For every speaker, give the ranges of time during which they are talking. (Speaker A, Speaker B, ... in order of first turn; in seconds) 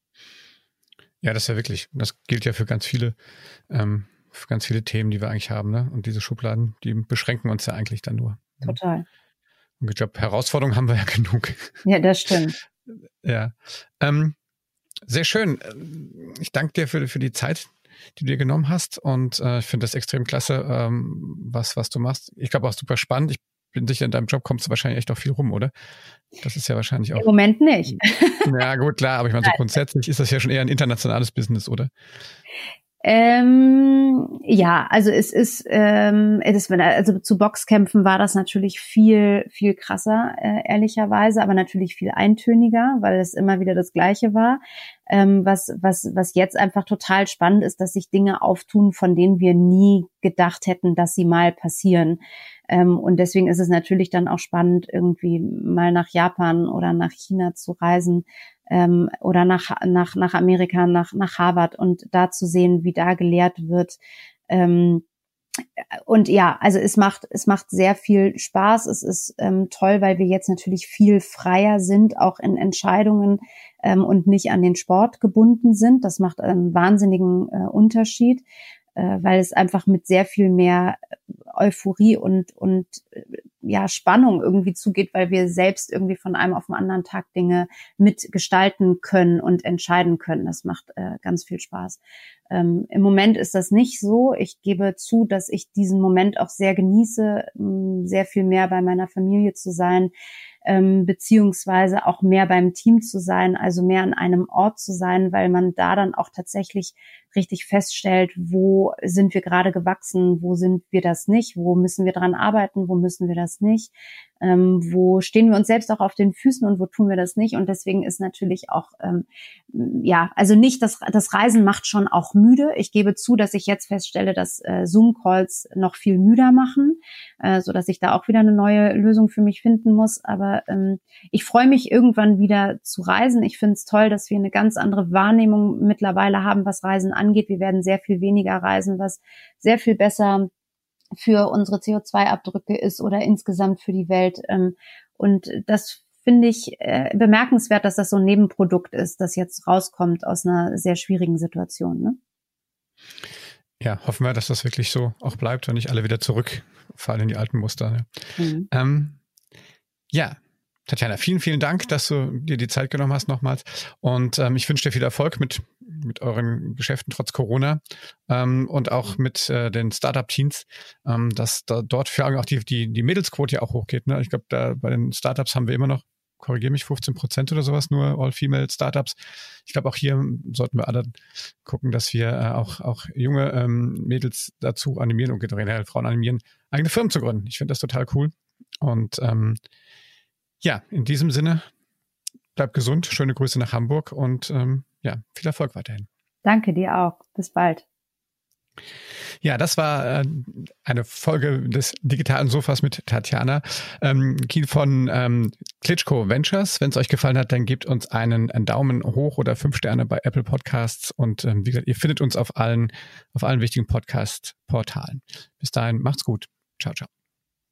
Speaker A: 1.2-3.1, 3.7-8.8, 9.8-11.8, 12.9-14.3, 15.1-25.7, 26.4-27.3, 28.4-31.9, 153.8-159.2, 160.1-189.6, 190.6-191.7, 192.6-196.1, 199.4-217.1
Speaker B: 8.6-9.0, 11.8-12.6, 27.2-28.5, 33.0-65.0, 66.0-78.4, 79.0-81.0, 81.5-100.1, 100.6-140.5, 141.1-152.2, 158.4-158.7, 196.4-197.8